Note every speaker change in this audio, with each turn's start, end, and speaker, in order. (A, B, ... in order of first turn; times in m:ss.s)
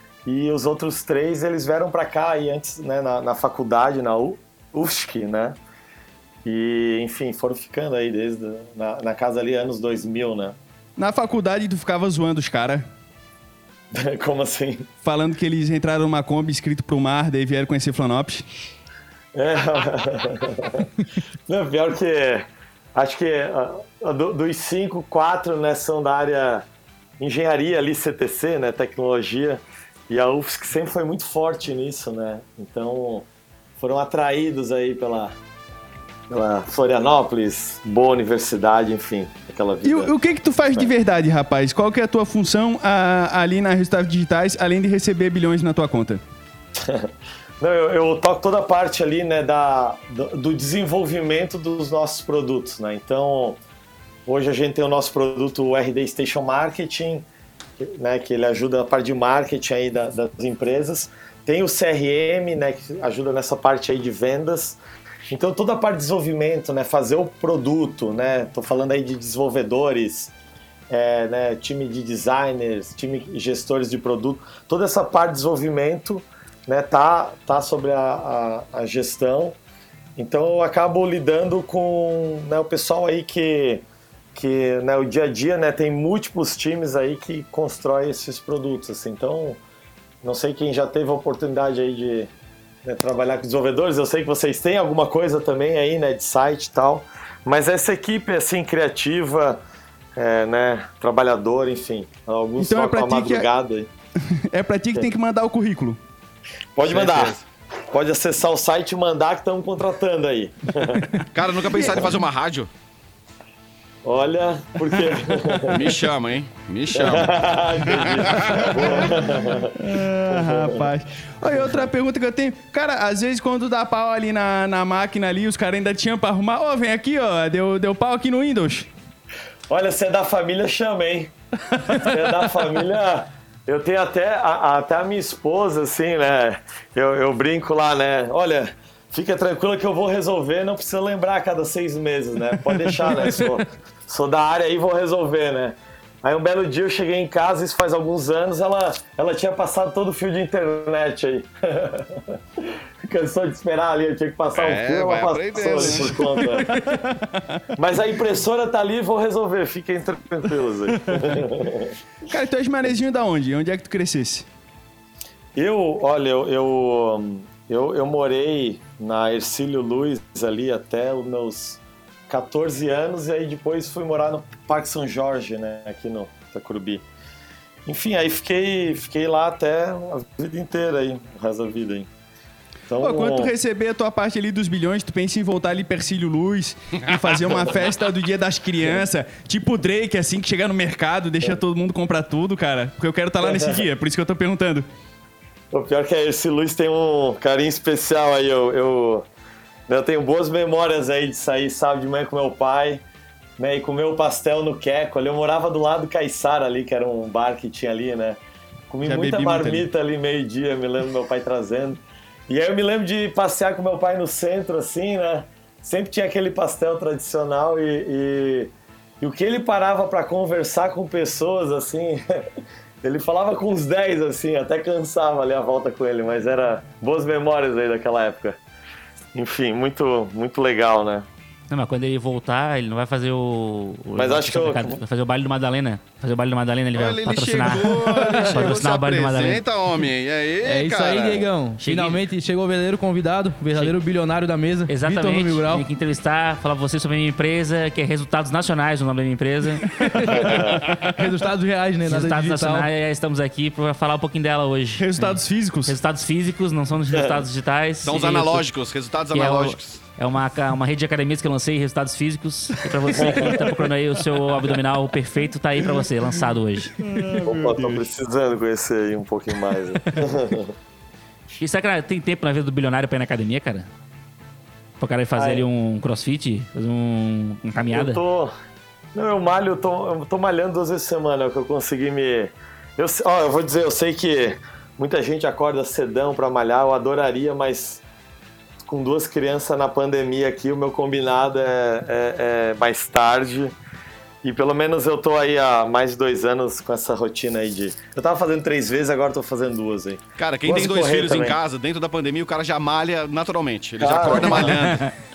0:00.3-0:05.6 A
0:06.4-0:10.6 A
0:11.0-0:12.8 B
0:13.9-0:14.9 A
0:15.0-0:18.4 B
0:19.3-0:20.9 A
0:21.5-0:26.6 A
0:27.2-0:33.3 A
0:33.8-0:35.4 A
0:36.3-0:40.1 A
0:39.8-0:46.2 B
0:46.8-0:53.6 A
0:54.3-0:57.3 A
0:57.8-1:04.8 A
1:05.3-1:10.3 A
1:10.9-1:19.6 A
1:20.2-1:23.8 A
1:24.4-1:29.6 A
1:30.2-1:32.3 A
1:32.8-1:39.6 A
1:40.2-1:43.9 A
1:42.6-1:43.5 B
1:44.3-1:46.0 B
1:46.8-1:47.4 A
1:46.9-1:47.4 C
1:47.9-1:51.2 A
1:51.3-1:52.7 C
1:51.7-1:52.1 B
1:54.0-1:55.9 A
1:54.9-1:55.9 B
1:55.7-1:59.0 C
1:56.9-2:00.8 A
1:59.8-2:08.9 B
2:09.7-2:11.3 A
2:11.9-2:36.7 A
2:34.5-2:36.5 C
2:35.6-2:37.6 B
2:37.8-2:41.9 A
2:41.1-2:41.4 B
2:42.3-2:44.5 B
2:45.6-2:57.0 A
2:57.9-3:02.1 A
3:02.9-3:03.5 A
3:03.0-3:14.9 B
3:13.4-3:13.8 A
3:15.7-3:19.3 A
3:19.9-3:23.0 A
3:23.6-3:28.4 A
3:28.9-3:42.4 A
3:29.0-3:29.9 B
3:43.0-3:48.6 A
3:49.4-3:51.3 A
3:51.7-3:59.6 D
3:54.2-3:55.0 A
3:56.9-4:01.5 C
3:58.2-3:58.7 E
4:00.6-4:05.9 E
4:01.8-4:02.2 D
4:04.9-4:10.6 D
4:10.0-4:12.9 E
4:10.4-4:10.8 A
4:12.1-4:18.7 D
4:15.0-4:15.9 B
4:18.0-4:20.0 C
4:19.3-4:26.9 D
4:23.2-4:23.5 A
4:27.0-4:28.0 B
4:27.4-4:30.7 A
4:31.6-4:33.9 D
4:35.0-4:38.2 D
4:35.4-4:35.6 A
4:37.9-4:38.5 A
4:39.2-4:48.0 A
4:48.8-4:53.7 A
4:54.4-5:01.6 A
5:00.4-5:05.1 C
5:04.0-5:04.8 A